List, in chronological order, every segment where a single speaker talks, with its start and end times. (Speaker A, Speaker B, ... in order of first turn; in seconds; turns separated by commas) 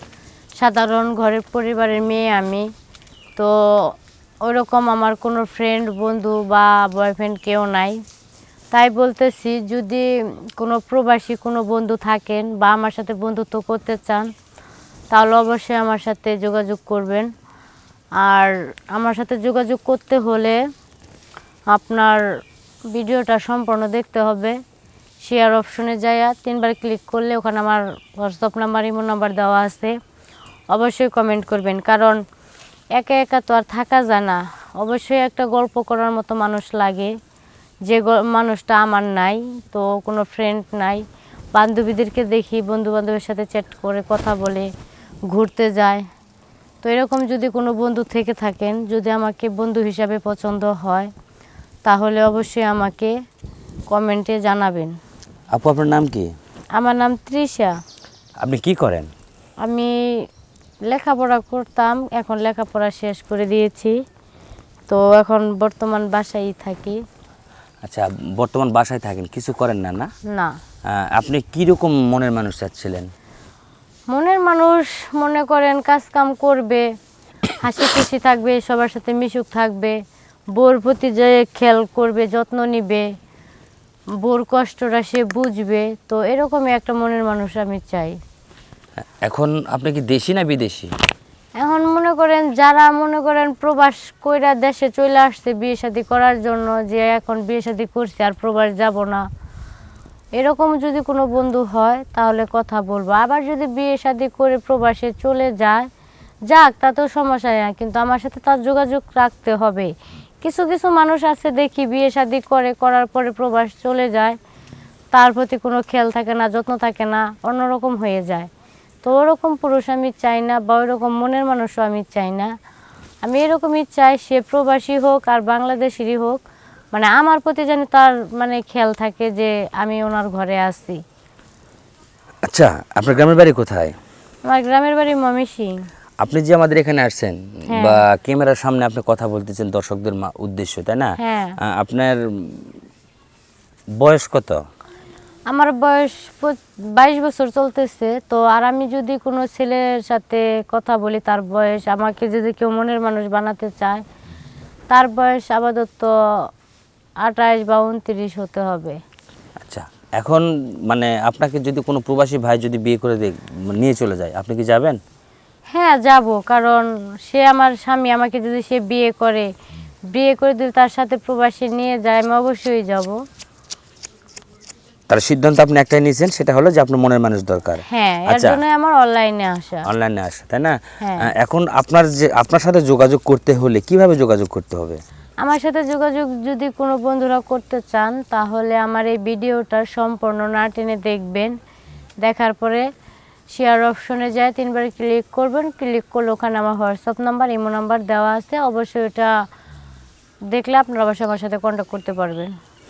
Speaker A: 0.6-2.7, Speaker A: 3.4-8.0, Speaker A: 8.7-14.3, Speaker A: 15.1-17.3, Speaker A: 18.2-20.6, Speaker A: 21.7-22.2, Speaker A: 22.9-24.6, Speaker A: 25.2-29.9, Speaker A: 30.7-32.2, Speaker A: 32.9-37.1, Speaker A: 37.9-44.7, Speaker A: 45.3-46.0, Speaker A: 46.8-51.1, Speaker A: 51.9-53.1, Speaker A: 53.9-54.9, Speaker B: 55.5-56.3, Speaker A: 56.7-57.8, Speaker B: 58.4-59.1, Speaker A: 59.6-60.2, Speaker A: 60.9-64.0, Speaker A: 64.9-67.0, Speaker B: 67.8-70.1, Speaker A: 70.3-70.5, Speaker B: 70.9-73.1, Speaker A: 74.1-76.8, Speaker A: 77.5-80.0, Speaker A: 80.5-83.1, Speaker A: 84.2-88.2, Speaker B: 89.0-90.9, Speaker A: 91.6-99.2, Speaker A: 100.3-105.9, Speaker A: 106.5-109.9, Speaker A: 110.4-114.4, Speaker A: 115.1-118.5, Speaker A: 119.0-122.5, Speaker A: 123.2-126.4, Speaker A: 126.9-131.0, Speaker B: 132.4-133.9, Speaker A: 134.4-135.8, Speaker B: 136.2-142.7, Speaker A: 137.7-138.0, Speaker A: 141.2-141.6, Speaker B: 144.0-144.6, Speaker A: 145.5-154.0, Speaker A: 154.9-156.1, Speaker A: 157.2-159.0, Speaker B: 159.6-165.0, Speaker A: 165.7-169.5, Speaker A: 170.1-173.2, Speaker B: 175.1-178.6, Speaker A: 177.9-179.8, Speaker B: 179.8-185.0, Speaker A: 181.0-181.3, Speaker A: 185.4-191.6, Speaker A: 192.2-192.9, Speaker A: 193.5-199.3, Speaker A: 200.5-202.5